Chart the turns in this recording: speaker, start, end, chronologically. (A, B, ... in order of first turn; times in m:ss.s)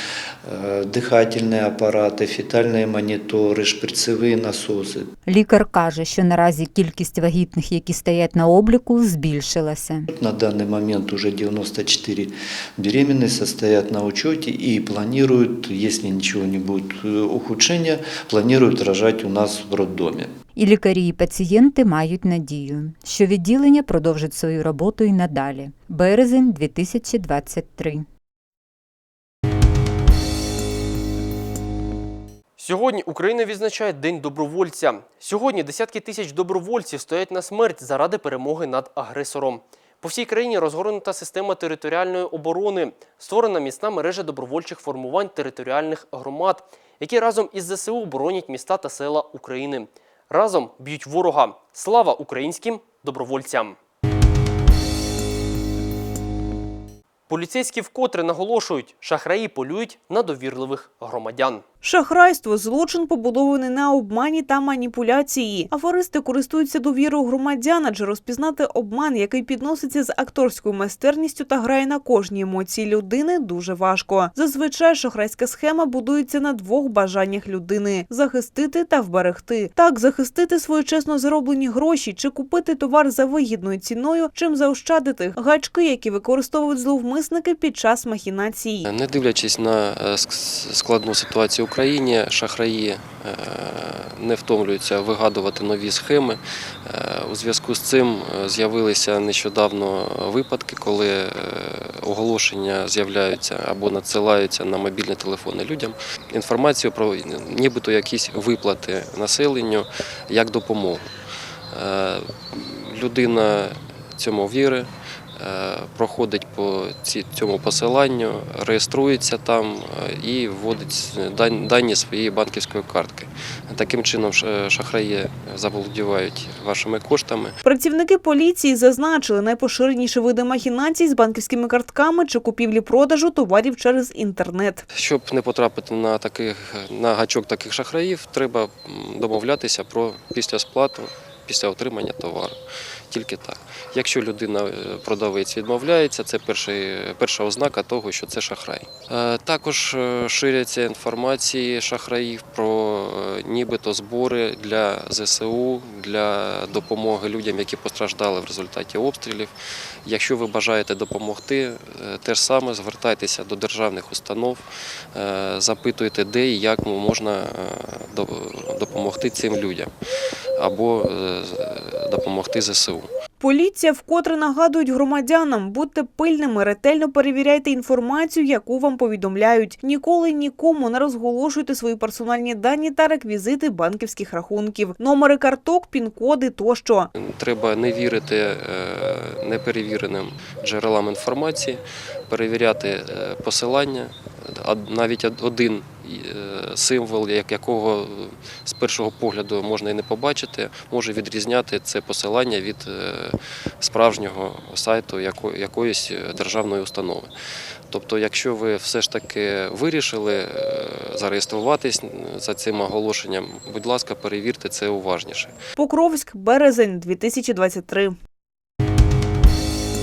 0:00.4-0:05.1 A
0:05.3-0:10.1 B
0:10.1-0:20.3 A
0:20.6-0:28.1 B
0:32.6-0:53.8 C
0:57.3-1:01.6 C
1:01.8-1:28.9 D
1:28.8-1:51.1 E
1:51.7-2:07.6 E
2:07.6-2:14.8 D
2:14.9-2:39.5 E
2:40.0-2:49.9 E
2:50.6-2:53.1 E
2:53.4-3:07.1 D
3:07.2-3:27.3 E
3:27.9-3:35.6 E
3:35.8-3:38.1 D